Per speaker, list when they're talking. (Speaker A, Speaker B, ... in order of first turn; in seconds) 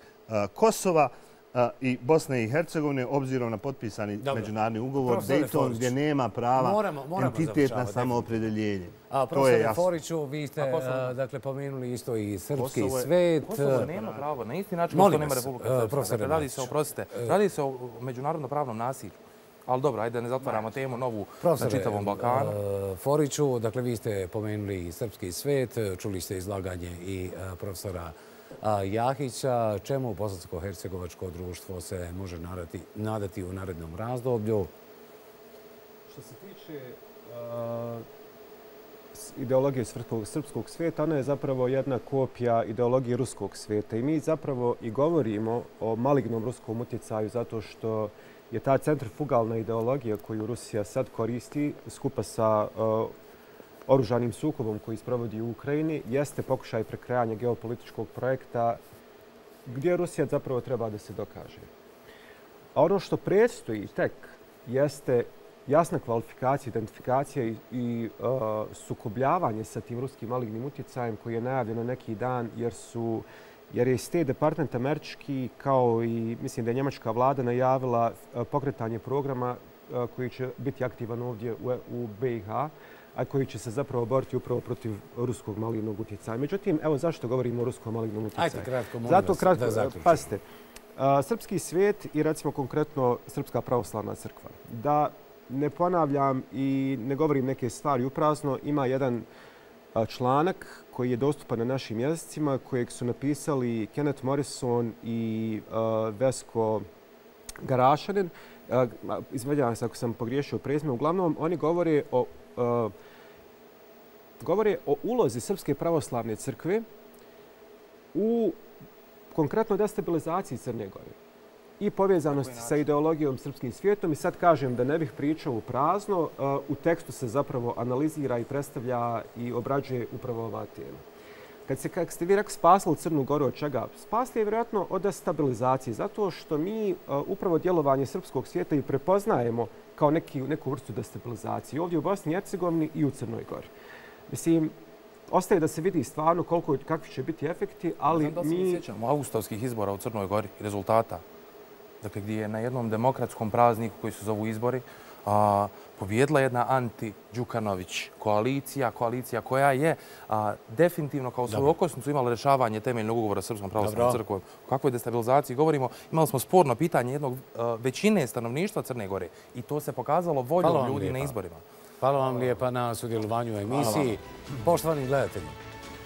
Speaker A: 0.3-9.9, 12.6-14.3
Speaker B: 4.2-5.9, 6.6-8.4, 9.1-13.9, 14.9-17.4, 21.4-34.7, 88.3-90.3, 161.5-161.7, 163.8-164.2, 170.6-171.4, 172.0-175.6
Speaker C: 10.6-11.2, 13.4-22.6, 122.2-122.9, 148.1-151.2, 152.0-171.6
Speaker D: 36.1-38.1, 39.1-53.1, 53.9-58.8, 59.7-61.7, 62.8-90.4, 91.0-99.2, 99.9-106.9, 107.6-112.9, 114.4-116.8, 118.1-118.6, 119.3-121.2, 121.8-131.0, 131.7-143.7, 144.3-144.8, 145.3-148.8